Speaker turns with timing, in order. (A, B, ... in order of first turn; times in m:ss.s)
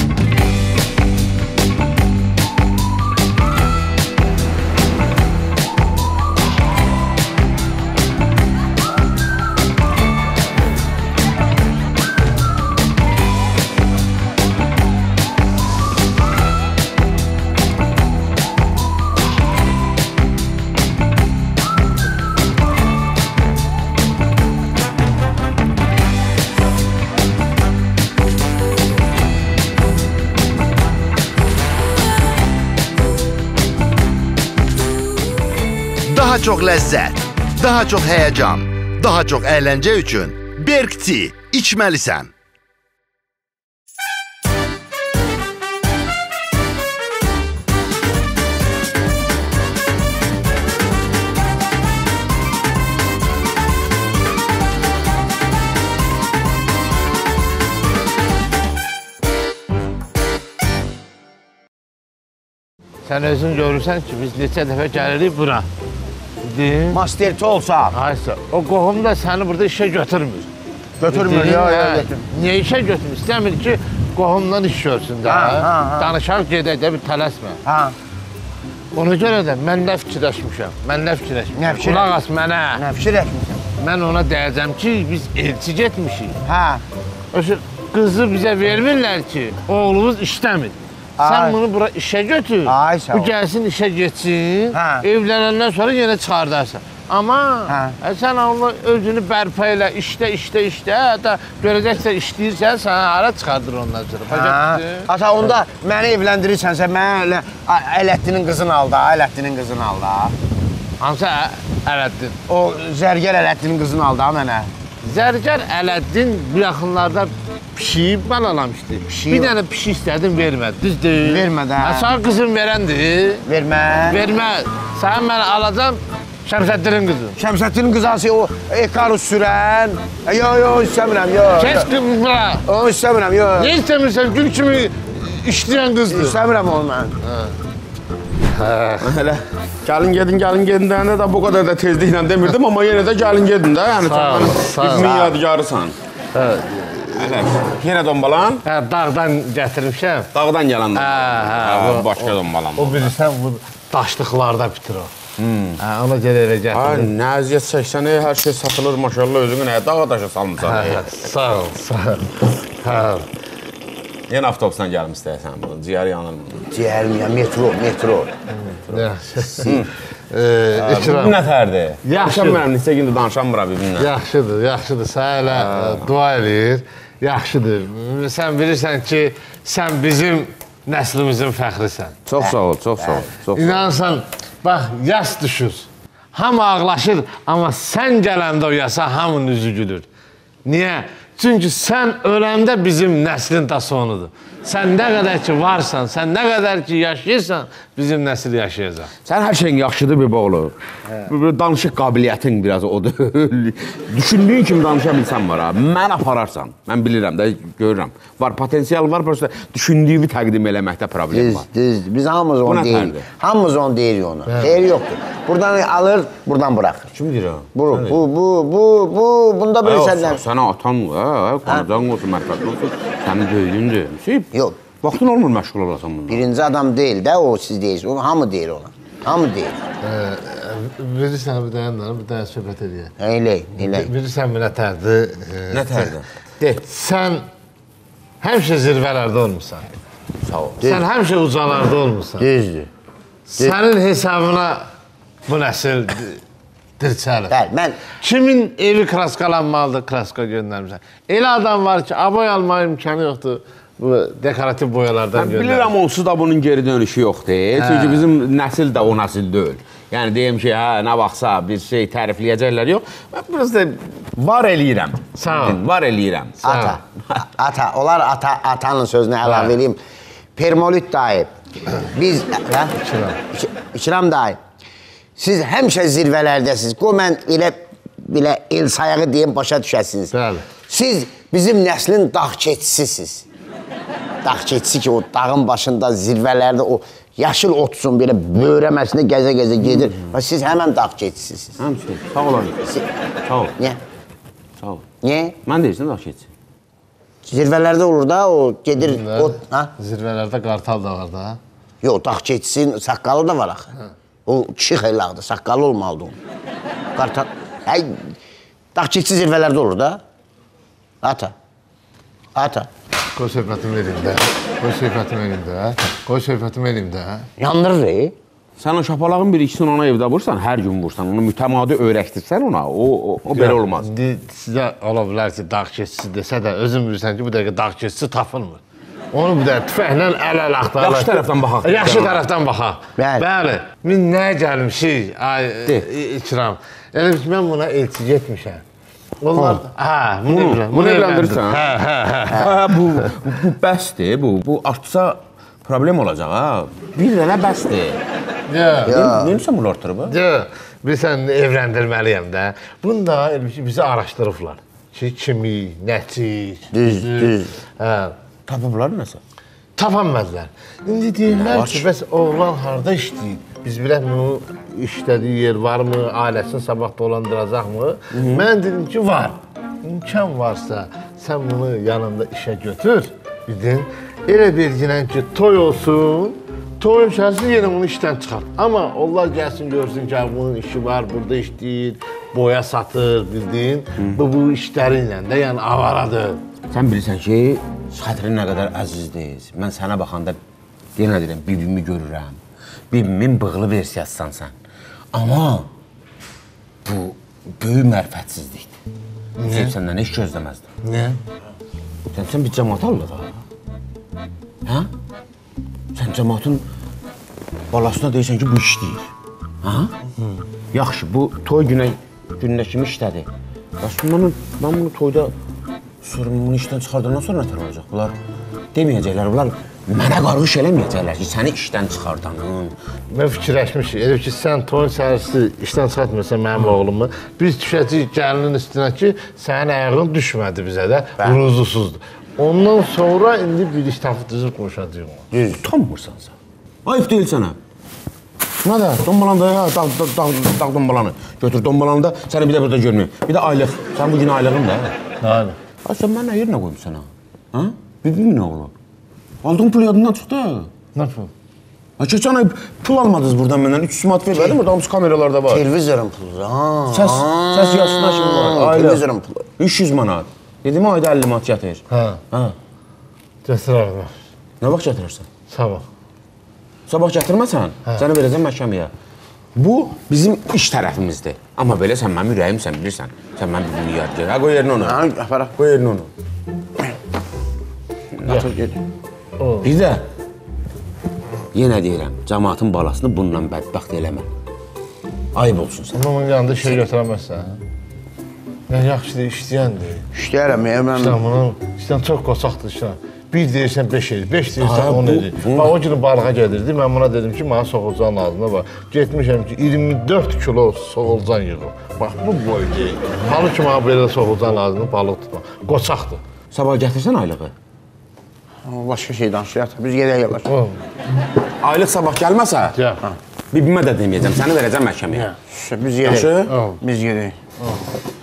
0:36.1-0:42.3 A
1:03.0-1:05.7 B
1:06.4-1:07.0 B
1:06.9-1:08.0 C
1:07.9-1:10.5 B
1:11.0-1:12.2 C
1:11.1-1:17.6 B
1:15.2-1:16.1 C
1:17.6-1:18.0 C
1:18.9-1:22.8 B
1:21.5-1:22.2 C
1:22.7-1:23.6 C
1:23.8-1:26.4 B
1:26.4-1:26.8 C
1:27.3-1:45.1 B
1:31.2-1:31.6 C
1:32.6-1:33.4 C
1:34.7-1:35.1 C
1:37.7-1:38.0 C
1:44.3-1:50.4 C
1:51.0-1:52.4 B
1:52.5-1:54.7 C
1:55.0-2:03.4 B
1:59.1-1:59.5 C
2:01.2-2:02.1 C
2:03.5-2:04.3 C
2:04.1-2:07.4 B
2:07.3-2:11.9 C
2:11.6-2:12.6 B
2:12.6-2:13.8 C
2:13.6-2:16.4 B
2:16.1-2:17.2 C
2:17.2-2:17.5 B
2:18.5-2:19.1 B
2:19.0-2:26.0 D
2:24.0-2:25.2 B
2:24.8-2:25.3 C
2:26.3-2:27.3 B
2:27.1-2:28.6 D
2:28.6-2:30.3 B
2:30.3-2:33.1 D
2:30.9-2:35.1 B
2:35.4-2:35.8 D
2:35.8-2:37.1 B
2:36.7-2:41.1 D
2:40.6-2:43.2 B
2:44.3-2:46.7 D
2:46.7-2:48.3 C
2:48.6-2:51.4 B
2:49.6-2:49.9 D
2:50.8-2:54.1 D
2:52.0-2:52.6 B
2:54.0-3:02.2 B
2:55.5-2:56.1 D
3:02.2-3:03.9 D
3:02.4-3:03.3 C
3:03.5-3:10.0 B
3:10.6-3:19.1 B
3:19.2-3:31.6 D
3:31.3-3:37.1 C
3:32.6-3:33.2 D
3:34.5-3:34.8 B
3:37.1-3:38.2 D
3:37.7-3:40.4 C
3:39.8-3:46.4 D
3:44.5-3:44.8 C
3:46.3-3:49.8 C
3:50.0-3:53.1 B
3:53.2-3:54.1 C
3:53.8-3:56.1 B
3:55.7-3:56.8 D
3:56.8-3:57.4 B
3:58.4-3:59.9 B
4:00.4-4:00.8 D
4:00.8-4:02.5 B
4:02.4-4:02.9 C
4:03.5-4:04.9 B
4:05.5-4:06.4 B
4:07.0-4:07.5 B
4:07.5-4:08.0 C
4:08.2-4:15.9 B
4:15.3-4:26.9 D
4:17.8-4:18.2 B
4:25.4-4:25.8 B
4:26.6-4:30.0 C
4:26.6-4:27.0 B
4:29.4-4:29.7 B
4:30.6-4:32.9 C
4:33.0-4:33.4 B
4:33.5-4:34.6 C
4:35.4-4:40.3 C
4:40.3-4:40.6 B
4:40.9-4:43.4 C
4:44.4-4:51.8 C
4:49.8-4:50.3 D
4:51.8-4:52.8 D
4:53.4-4:53.7 D
4:54.8-4:55.0 D
4:55.2-4:55.6 C
4:55.6-4:56.5 D
4:57.4-4:59.9 C
4:59.0-5:01.6 B
5:02.0-5:03.9 C
5:04.4-5:06.4 C
5:07.2-5:08.3 C
5:08.9-5:10.2 C
5:11.2-5:11.5 C
5:12.5-5:12.9 C
5:13.3-5:17.5 B
5:17.6-5:18.3 C
5:18.8-5:24.1 D
5:23.5-5:28.8 B
5:29.3-5:38.8 B
5:31.0-5:32.4 D
5:33.2-5:33.4 C
5:39.4-5:42.7 B
5:40.5-5:41.9 D
5:42.5-5:48.2 D
5:48.7-5:49.1 B
5:49.0-5:49.6 C
5:49.0-5:50.3 D
5:50.3-5:58.3 B
5:56.9-5:57.7 C
5:58.7-5:59.4 D
6:00.0-6:26.6 B
6:01.5-6:02.0 D
6:08.3-6:08.6 D
6:26.9-6:30.6 D
6:31.2-6:32.6 D
6:33.1-6:34.7 D
6:35.3-6:35.9 D
6:37.0-6:38.9 D
6:39.6-6:39.9 B
6:39.7-6:40.8 D
6:41.0-6:41.4 B
6:42.3-6:43.5 D
6:46.1-6:46.8 D
6:47.9-6:49.3 D
6:49.8-6:50.1 D
6:50.9-6:53.5 D
6:54.0-6:55.5 D
6:56.2-6:58.4 D
6:58.9-7:02.9 D
7:03.3-7:15.4 B
7:15.5-7:15.8 C
7:15.6-7:16.5 D
7:17.0-7:17.8 D
7:18.8-7:25.1 D
7:25.4-7:25.8 B
7:26.0-7:28.9 D
7:29.6-7:30.9 D
7:31.1-7:31.5 B
7:32.2-7:35.8 D
7:34.5-7:34.8 C
7:35.7-7:39.6 C
7:37.1-7:39.2 D
7:39.8-7:42.7 D
7:42.1-7:42.4 B
7:43.6-7:44.3 B
7:44.8-7:45.4 D
7:45.7-7:46.0 B
7:47.1-7:49.1 D
7:49.7-7:56.3 D
7:55.0-7:55.7 C
7:58.4-7:59.0 D
7:59.6-7:59.9 B
7:59.8-8:00.2 D
8:01.7-8:04.5 D
8:05.5-8:06.1 D
8:06.1-8:07.8 B
8:08.9-8:10.3 B
8:10.3-8:11.4 C
8:11.1-8:26.4 B
8:14.8-8:15.9 D
8:26.7-8:27.7 D
8:28.8-8:30.7 C
8:30.7-8:31.0 B
8:31.8-8:33.0 D
8:32.9-8:33.2 B
8:33.7-8:35.5 D
8:35.7-8:37.6 C
8:36.2-8:36.7 D
8:36.7-8:37.0 B